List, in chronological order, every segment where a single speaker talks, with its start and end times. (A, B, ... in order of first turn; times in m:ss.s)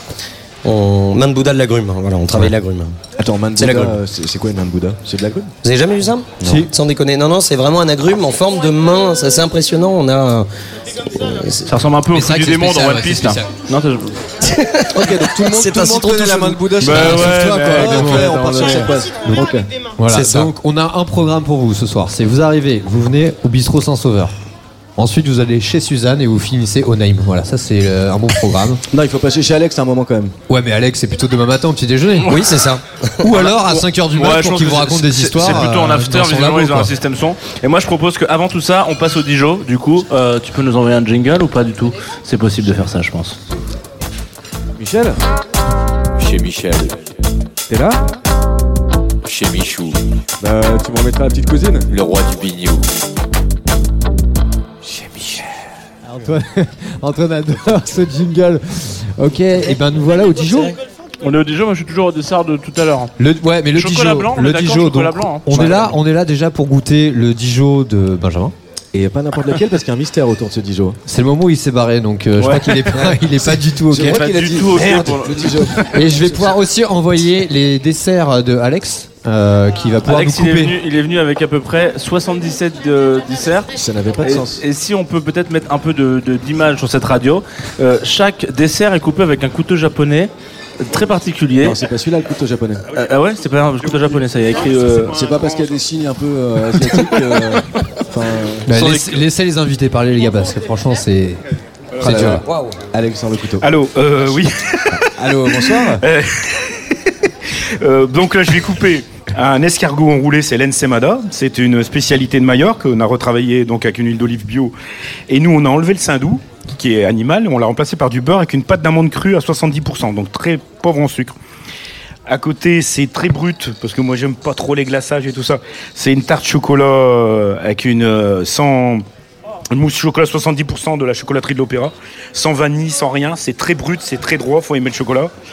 0:00.6-0:03.0 A
0:03.2-0:05.5 B
0:03.6-0:04.0 A
0:05.6-0:11.8 A
0:06.4-0:06.7 B
0:11.6-0:14.2 C
0:12.1-0:13.6 D
0:14.4-0:16.8 A
0:14.9-0:19.7 B
0:16.8-0:18.7 D
0:16.8-0:18.7 C
0:20.0-0:24.3 D
0:20.1-0:20.5 A
0:25.0-0:28.8 D
0:28.9-0:30.3 B
0:30.5-0:32.6 D
0:32.3-0:33.3 A
0:33.2-0:36.9 D
0:33.4-0:43.3 C
0:44.8-0:45.2 B
0:46.2-0:47.1 E
0:47.7-0:48.1 B
0:49.2-0:50.0 E
0:50.4-0:51.9 B
0:51.9-0:52.8 E
0:54.8-0:55.5 E
0:56.1-1:00.7 D
1:01.2-1:03.1 C
1:03.2-1:08.5 D
1:03.7-1:05.8 C
1:05.5-1:05.9 B
1:08.9-1:11.0 B
1:11.0-1:14.2 D
1:12.4-1:13.0 C
1:13.0-1:16.5 B
1:14.0-1:15.9 C
1:15.9-1:20.8 D
1:20.0-1:30.3 C
1:23.8-1:24.6 B
1:30.8-1:31.8 C
1:31.6-1:32.9 B
1:32.9-1:35.2 C
1:33.8-1:35.8 F
1:35.0-1:38.7 B
1:38.6-1:41.4 D
1:38.7-1:39.2 C
1:42.0-1:42.4 D
1:42.0-1:43.7 B
1:42.3-1:42.8 A
1:43.6-1:47.1 F
1:44.9-1:46.0 B
1:47.8-1:54.7 F
1:55.3-2:01.3 F
2:02.3-2:09.0 F
2:09.7-2:15.3 F